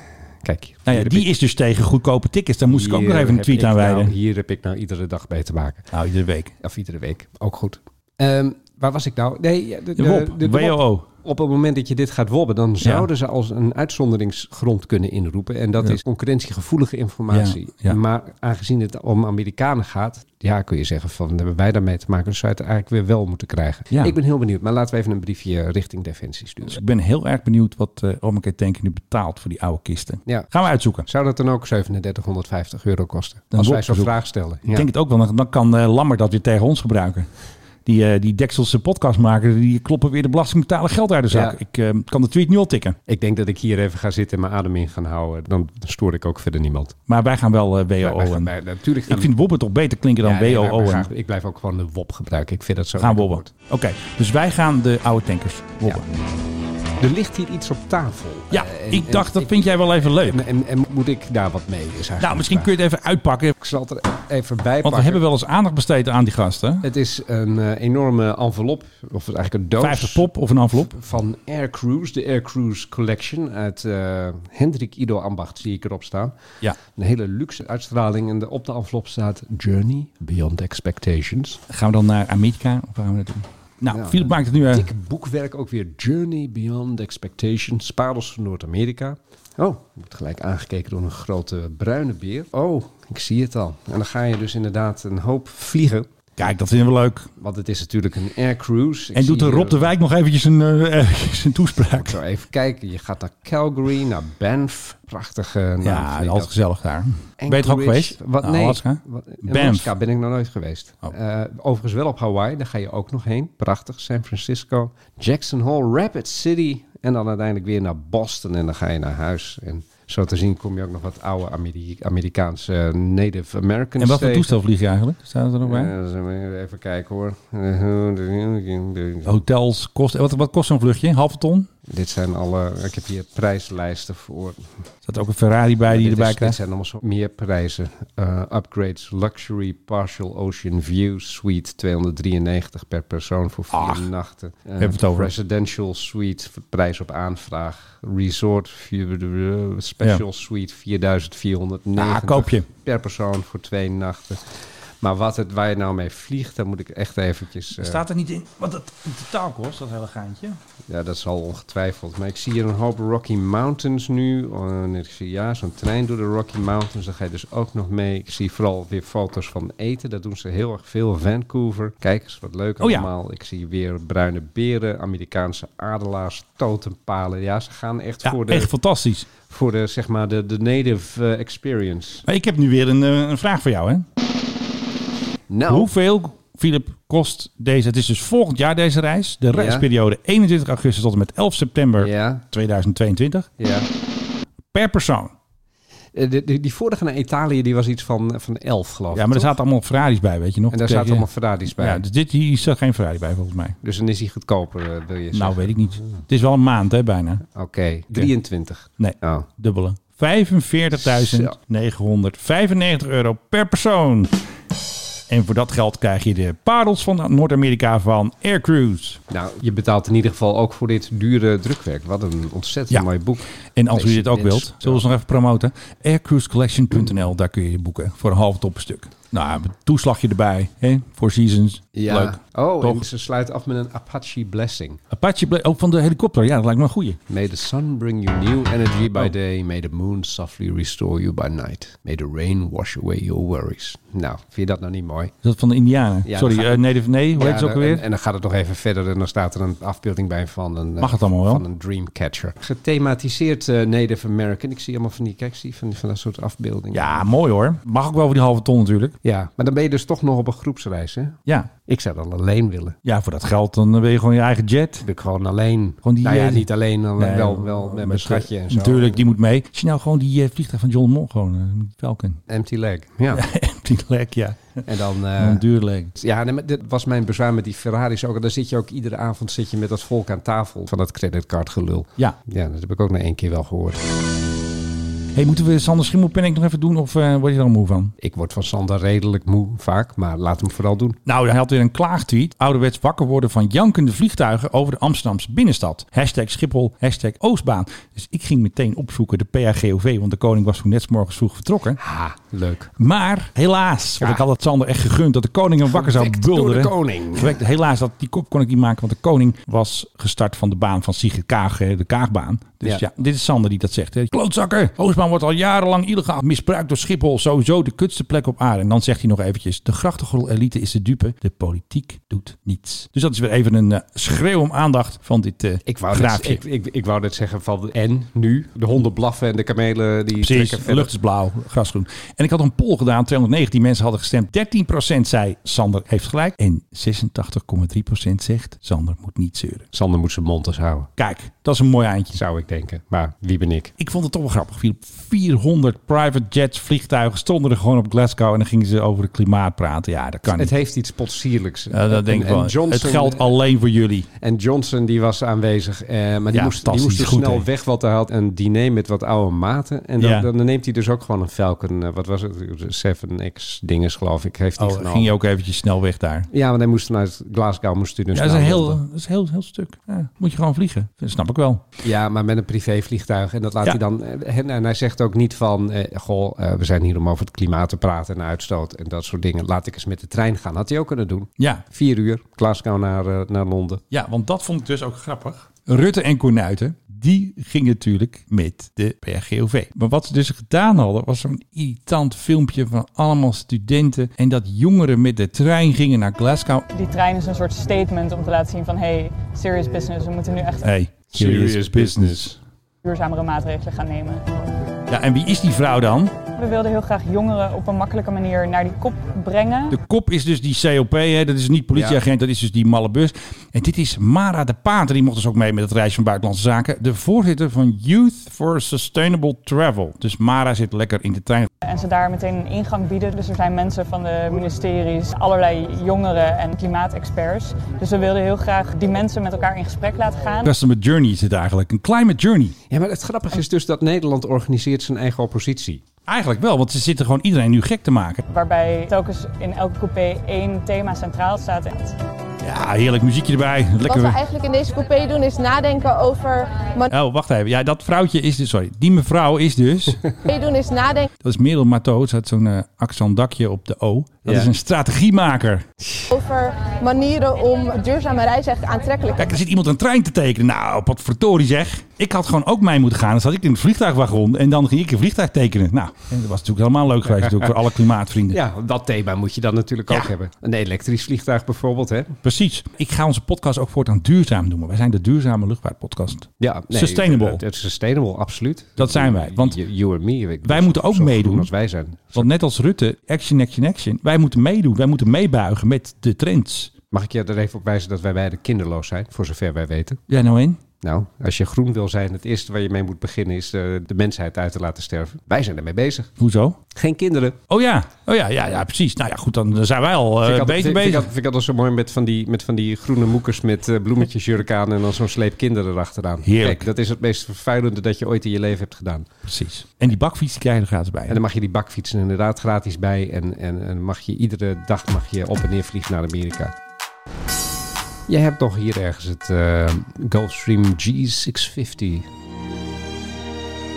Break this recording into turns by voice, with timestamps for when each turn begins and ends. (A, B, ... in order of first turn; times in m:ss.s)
0:00.4-0:01.3 A
0:00.9-0:04.1 B
0:02.7-0:05.9 A
0:05.9-0:06.5 B
0:06.6-0:26.8 A
0:10.0-0:11.1 B
0:12.8-0:13.1 B
0:17.3-0:18.0 B
0:26.6-0:31.1 B
0:31.0-0:34.9 A
0:33.5-0:34.1 B
0:34.7-0:37.3 B
0:37.8-0:43.0 B
0:41.3-0:41.6 A
0:43.1-0:47.0 A
0:47.1-0:48.5 B
0:48.0-0:49.3 A
0:49.1-0:51.1 B
0:50.2-0:53.5 A
0:53.0-0:56.1 B
0:57.0-1:02.7 A
0:58.5-1:00.4 B
1:02.2-1:03.6 B
1:03.6-1:05.2 A
1:04.8-1:06.8 B
1:06.8-1:10.3 A
1:09.8-1:11.0 B
1:10.8-1:16.3 A
1:16.9-1:21.6 A
1:21.7-1:24.9 B
1:23.9-1:36.1 A
1:36.4-1:37.3 B
1:37.4-1:39.9 A
1:39.2-1:42.2 B
1:41.8-1:46.5 A
1:45.8-1:49.9 B
1:47.4-2:04.5 A
2:04.0-2:05.9 B
2:05.7-2:09.4 A
2:09.3-2:11.7 B
2:11.9-2:14.6 A
2:15.0-2:16.6 B
2:15.9-2:34.4 A
2:23.7-2:24.1 B
2:24.8-2:25.3 B
2:32.0-2:32.7 B
2:35.0-2:38.0 A
2:37.8-2:40.6 B
2:40.9-2:58.7 A
2:52.8-2:53.1 B
2:58.2-2:59.3 B
2:59.5-3:02.2 A
3:02.3-3:04.1 B
3:05.5-3:05.9 A
3:05.7-3:13.5 B
3:09.5-3:09.9 A
3:12.0-3:12.4 A
3:13.6-3:13.9 A
3:14.7-3:15.3 B
3:16.1-3:19.6 A
3:19.1-3:23.8 B
3:20.7-3:22.0 A
3:23.8-3:26.2 A
3:25.3-3:27.4 B
3:27.5-3:29.5 A
3:29.0-3:34.4 B
3:31.0-3:31.5 A
3:35.3-3:39.2 B
3:39.3-3:45.0 A
3:43.8-3:53.1 B
3:52.0-3:55.0 A
3:55.1-3:57.2 B
3:57.3-4:05.3 A
4:05.4-4:08.0 B
4:06.3-4:17.2 A
4:11.0-4:11.6 B
4:16.9-4:19.2 B
4:19.2-4:23.0 A
4:23.0-4:25.0 B
4:25.0-4:29.2 A
4:26.0-4:32.4 B
4:32.5-4:33.4 A
4:33.3-4:34.8 B
4:34.9-4:35.6 A
4:35.4-4:36.1 B
4:36.2-4:44.0 A
4:45.3-4:48.1 B
4:48.2-4:51.2 A
4:51.3-5:02.0 B
5:02.0-5:02.9 A
5:03.0-5:26.6 B
5:05.9-5:07.6 A
5:25.9-5:31.1 A
5:30.4-5:39.8 B
5:39.9-5:41.1 A
5:41.2-5:42.4 B
5:42.3-5:43.9 A
5:44.0-5:50.7 B
5:50.5-5:53.6 A
5:51.9-5:54.3 B
5:54.4-6:05.4 A
5:56.5-5:57.7 B
6:00.2-6:00.5 B
6:04.8-6:06.5 B
6:06.5-6:09.0 A
6:08.3-6:11.8 B
6:12.0-6:24.0 A
6:24.1-6:36.9 B
6:36.9-6:40.9 C
6:40.8-6:42.6 B
6:41.3-6:42.6 A
6:43.0-6:44.4 C
6:45.1-6:46.3 B
6:46.5-6:50.0 C
6:49.9-7:01.7 B
6:51.9-6:52.2 A
7:01.8-7:10.7 C
7:10.6-7:12.8 B
7:12.9-7:16.0 A
7:16.3-7:18.4 B
7:18.5-7:22.2 C
7:22.6-7:24.4 B
7:24.0-7:27.1 D
7:27.1-7:30.2 B
7:30.5-7:31.3 D
7:31.4-7:35.9 B
7:34.4-7:34.7 A
7:36.0-7:36.3 A
7:36.3-7:39.5 D
7:39.4-7:48.6 B
7:48.5-7:52.4 A
7:52.4-7:57.6 B
7:56.6-8:02.5 A
7:59.0-7:59.8 B
8:00.6-8:01.7 B
8:02.3-8:06.9 B
8:07.1-8:10.2 A
8:10.3-8:10.8 B
8:11.0-8:16.3 A
8:16.4-8:16.8 B
8:16.9-8:17.6 A
8:17.7-8:21.3 B
8:20.4-8:29.3 A
8:26.4-8:26.9 B
8:29.4-8:31.4 B
8:31.3-8:36.7 A
8:38.3-8:42.3 A